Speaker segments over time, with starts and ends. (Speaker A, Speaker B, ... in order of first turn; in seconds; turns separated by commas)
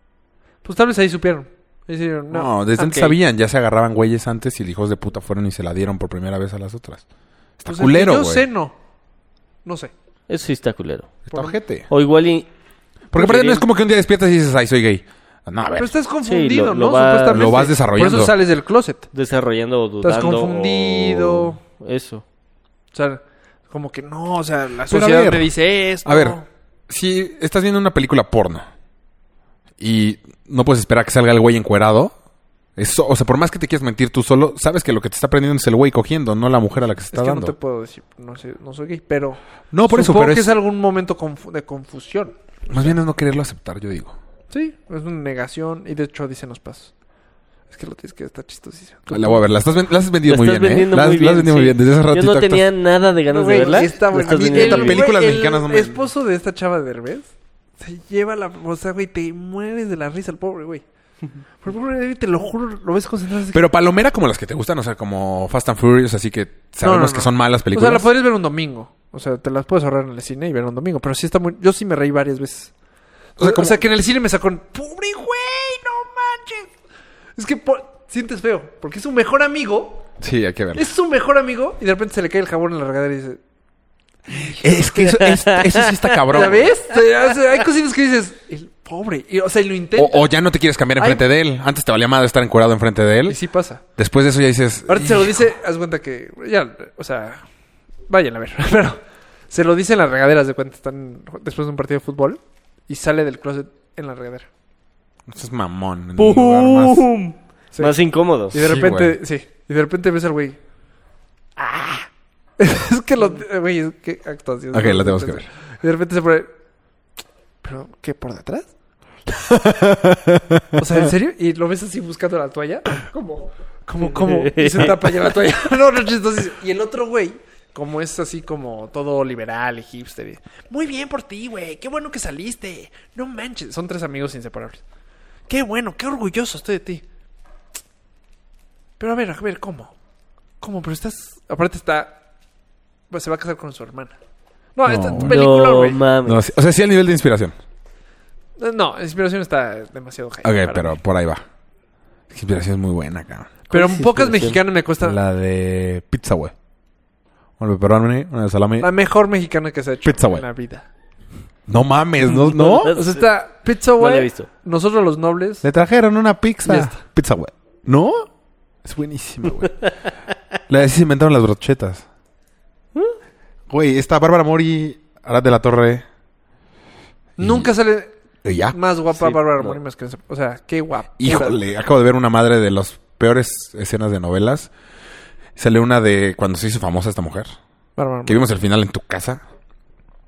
Speaker A: 0.6-3.1, Speaker B: 2.3-7.0, Speaker B: 7.6-8.5, Speaker A: 7.7-8.8, Speaker A: 9.6-9.9, Speaker C: 10.3-11.2, Speaker B: 11.3-11.9, Speaker C: 11.9-12.5, Speaker B: 13.1-15.9, Speaker C: 13.1-13.6, Speaker A: 15.7-19.1, Speaker C: 16.2-17.7, Speaker B: 17.3-18.3, Speaker C: 19.1-22.2, Speaker A: 20.0-21.6, Speaker A: 22.9-26.4, Speaker B: 24.9-25.5, Speaker B: 26.0-28.7, Speaker B: 29.8-32.1, Speaker B: 32.8-37.5, Speaker A: 37.1-42.9, Speaker B: 39.7-40.6, Speaker B: 42.7-44.2, Speaker A: 44.5-46.9, Speaker A: 47.7-49.4, Speaker B: 49.1-52.7, Speaker C: 50.2-55.1, Speaker A: 53.3-60.8, Speaker B: 54.3-56.0, Speaker A: 61.6-63.7, Speaker B: 63.5-68.1, Speaker A: 66.8-72.7, Speaker A: 73.4-76.7, Speaker B: 73.4-73.8, Speaker A: 77.4-80.0, Speaker B: 80.2-80.9, Speaker A: 80.7-83.4, Speaker A: 84.3-85.2, Speaker B: 84.3-86.7, Speaker C: 85.3-86.0, Speaker A: 86.3-90.3, Speaker B: 89.9-93.4, Speaker A: 91.0-91.2, Speaker A: 93.3-93.8, Speaker B: 94.0-95.4, Speaker A: 94.9-97.4, Speaker A: 98.1-104.5, Speaker B: 105.3-107.0, Speaker C: 106.2-108.5, Speaker A: 108.5-110.6, Speaker B: 108.5-109.2, Speaker A: 111.6-112.1, Speaker A: 112.6-116.5, Speaker B: 114.7-115.5, Speaker A: 117.6-118.7, Speaker B: 119.3-120.6, Speaker A: 120.8-134.8, Speaker C: 124.1-125.0, Speaker A: 135.5-137.0, Speaker A: 139.0-139.9, Speaker A: 140.6-142.2, Speaker A: 143.1-144.1, Speaker A: 144.7-146.0, Speaker B: 144.8-145.4, Speaker C: 145.2-146.4, Speaker B: 146.2-147.6, Speaker A: 148.6-151.0, Speaker B: 150.4-151.4, Speaker B: 152.3-153.6, Speaker A: 153.7-155.2, Speaker C: 153.7-154.6, Speaker B: 155.0-156.5, Speaker B: 157.6-158.9, Speaker A: 158.8-160.8, Speaker B: 160.0-160.4, Speaker B: 161.7-163.0, Speaker C: 162.2-163.3, Speaker A: 162.9-165.7, Speaker C: 164.0-164.5, Speaker B: 165.6-168.3, Speaker A: 166.6-167.0, Speaker B: 168.8-169.7, Speaker B: 170.7-172.1, Speaker B: 173.7-176.0, Speaker B: 177.4-177.7, Speaker A: 177.4-178.1, Speaker B: 178.4-178.8, Speaker A: 178.7-181.6, Speaker C: 179.2-179.8, Speaker B: 181.2-184.7, Speaker B: 185.6-187.5, Speaker A: 188.0-188.4, Speaker B: 188.2-189.4